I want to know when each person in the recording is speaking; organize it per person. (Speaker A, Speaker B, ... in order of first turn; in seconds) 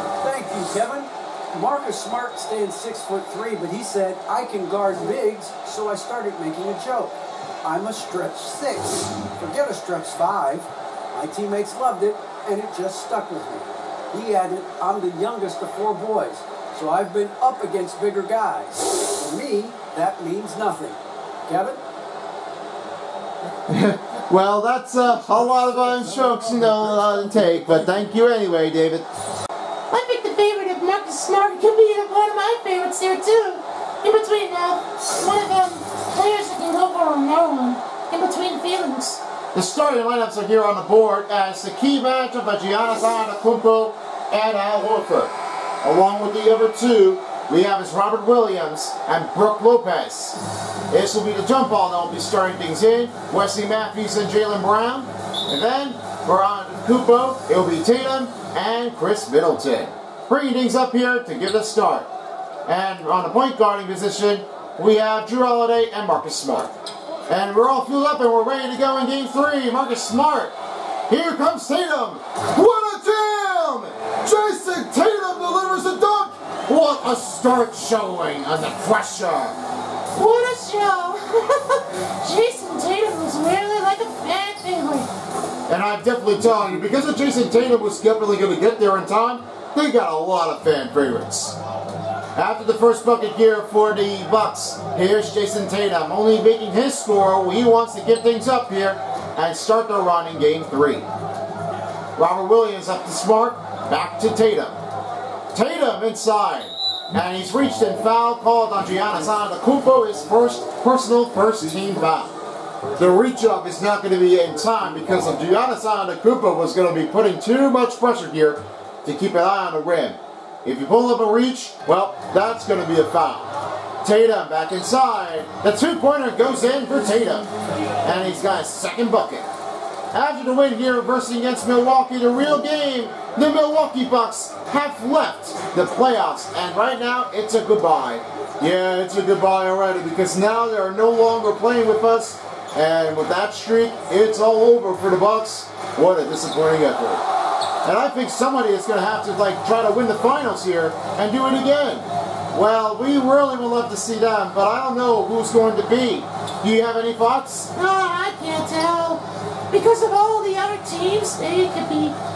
Speaker A: 0.2-21.8
Speaker B: 23.7-29.1, 39.5-50.4, 50.9-62.1, 62.6-66.7, 67.3-70.5, 71.1-79.6, 85.7-91.6, 92.3-101.0, 102.2-104.8, 105.5-112.3, 112.9-123.5, 124.0-127.5, 128.0-129.4, 130.1-147.2, 147.8-157.7
Speaker C: 29.9-39.2, 80.1-85.1, 157.7-162.2